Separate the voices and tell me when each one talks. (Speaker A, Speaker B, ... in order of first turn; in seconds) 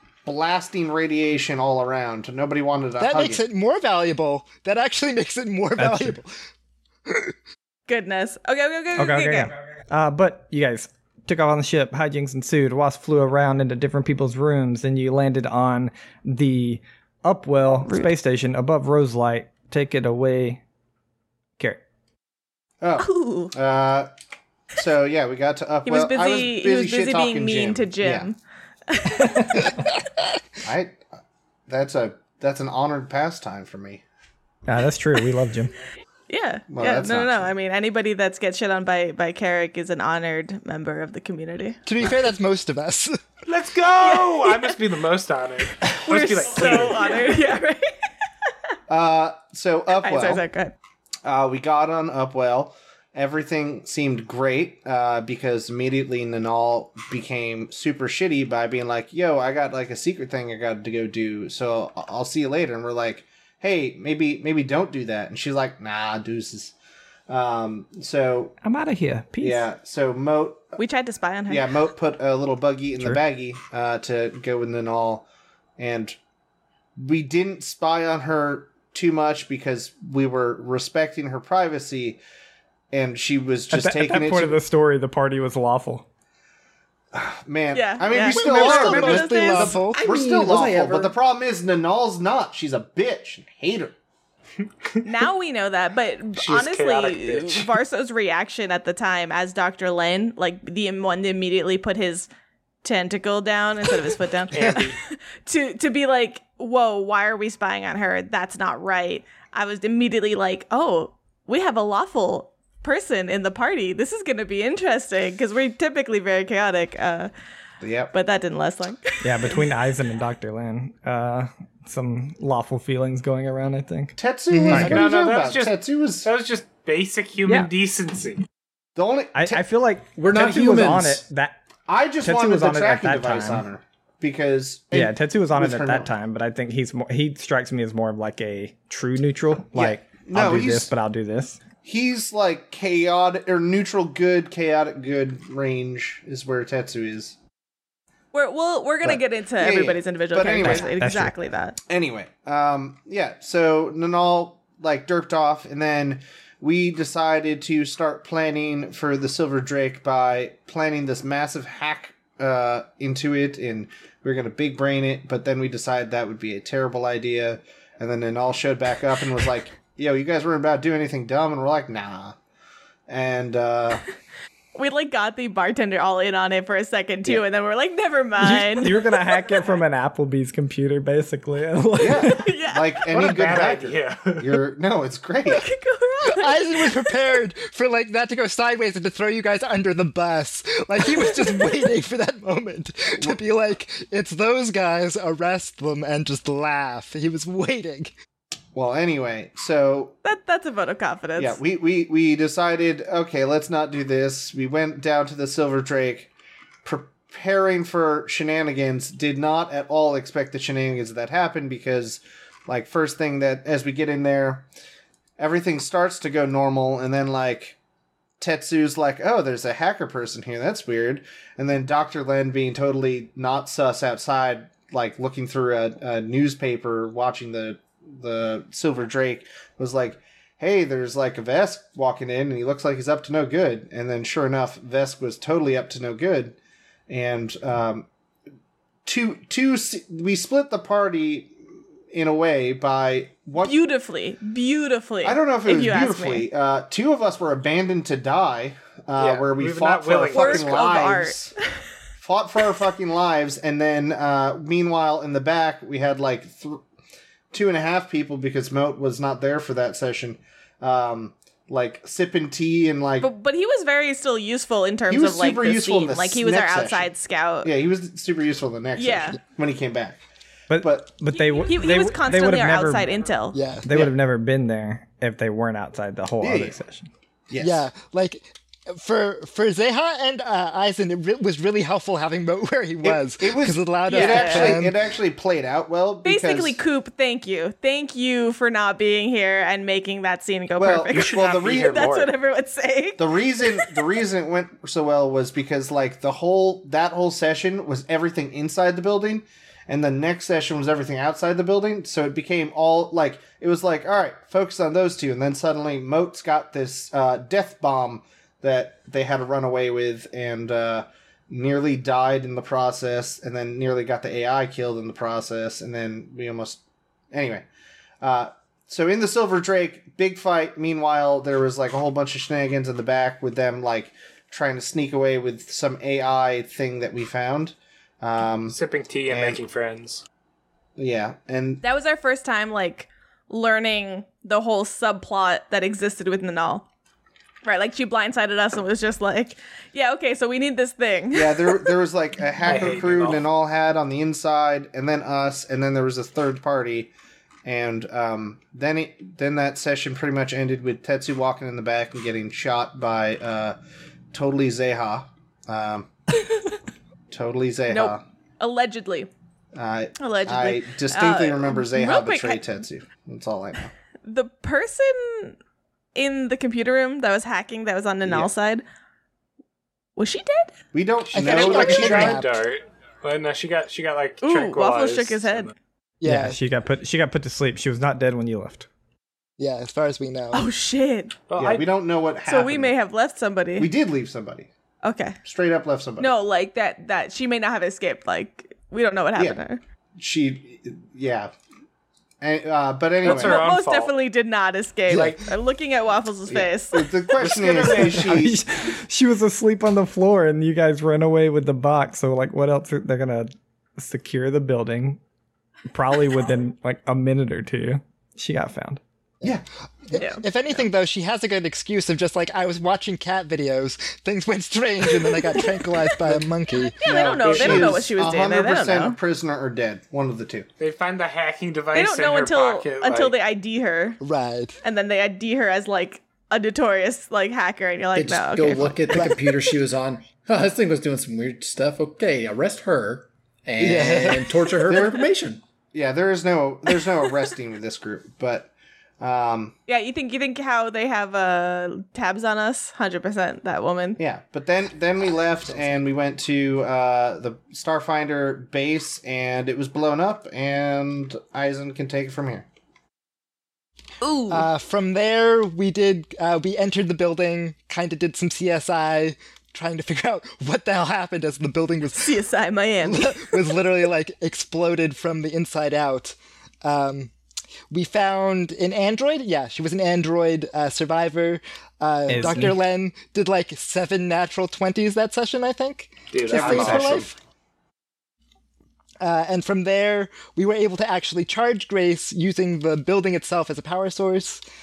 Speaker A: 0.2-3.4, 22.8-24.1, 24.8-28.3, 30.6-31.0, 31.7-34.0, 36.7-37.5, 48.9-50.4, 51.2-66.7, 67.3-68.5, 69.4-70.8, 71.5-75.3, 75.8-76.2, 77.0-82.2, 82.9-84.6, 87.1-93.9, 117.8-118.1, 124.2-126.3, 129.0-129.6, 131.9-136.1, 139.8-140.9, 141.8-147.4, 149.0-150.9, 151.9-172.4, 173.1-174.1, 182.0-185.7, 198.8-200.2, 201.4-206.3, 206.8-214.7, 215.4-217.8, 218.4-236.6, 237.1-238.1, 239.1-241.6, 242.1-243.8, 245.2-251.5, 252.2-256.8, 257.5-263.3, 265.1-267.1, 267.6-270.2, 270.8-271.1, 276.4-276.8, 277.5-277.9, 283.0-286.8, 290.8-292.1, 293.2-316.8, 317.3-317.7, 318.2-328.8, 329.3-329.6, 331.0-331.8, 341.3-347.1, 347.6-353.8, 354.3-356.1, 357.3-358.2, 359.8-363.9, 368.2-368.5, 370.9-372.4, 381.6-382.9, 383.8-384.7, 385.4-386.3, 390.2-391.5, 392.4-393.6, 396.5-398.6, 417.0-420.7, 434.9-435.4, 435.9-439.8, 444.2-452.7, 476.5-477.3
Speaker B: 3.0-6.3, 7.1-7.3, 41.9-43.2, 88.2-90.9, 124.5-125.0, 186.3-198.2, 273.5-273.9, 277.6-285.0, 371.3-372.6, 376.2-376.6, 379.6-380.7, 409.4-417.1, 424.2-424.8, 429.1-429.4, 433.8-434.6, 454.5-462.4, 463.0-467.3, 467.9-477.3, 479.2-484.6
Speaker C: 5.8-6.2, 8.9-20.6, 34.7-35.7, 68.6-69.7, 83.7-86.1, 119.2-124.2, 124.7-125.0, 129.3-131.6, 132.2-133.7, 134.9-141.6, 150.6-151.3, 178.4-182.5, 270.7-273.1, 273.9-277.1, 376.2-378.9, 398.2-405.2, 405.9-409.0, 472.3-472.8
Speaker D: 7.9-9.5, 23.0-23.6, 25.9-29.8, 36.3-41.8, 44.0-44.8, 45.9-48.0, 50.0-50.8, 70.8-71.7, 87.7-90.4, 95.0-102.3, 102.8-117.3, 118.1-119.7, 148.3-151.8, 174.8-179.1, 182.1-183.0, 185.5-187.1, 200.2-201.6, 243.6-246.5, 250.3-251.5, 263.2-267.7, 269.0-269.4, 271.3-273.6, 284.1-284.8, 286.2-293.9, 331.8-336.9, 337.6-341.9, 357.9-359.3, 360.2-362.6, 364.2-365.6, 366.1-368.8, 370.2-370.7, 374.4-375.7, 380.5-381.4, 382.5-383.9, 385.0-385.4, 386.2-389.8, 393.2-397.1, 410.1-410.4, 415.2-416.1, 416.8-419.2, 421.9-424.2, 424.8-429.3, 439.9-444.2, 454.2-454.7, 462.1-463.8
Speaker E: 43.5-47.3, 96.4-97.7, 104.5-105.0, 124.8-128.5, 183.1-184.6, 249.2-251.0, 291.1-292.3, 328.7-330.2, 342.6-343.5, 371.4-375.7, 381.5-381.9, 393.2-394.1, 395.1-395.4, 397.4-398.4, 417.2-418.0, 420.8-423.4, 476.3-477.3
Speaker F: 90.1-91.1, 130.2-131.2, 428.1-435.6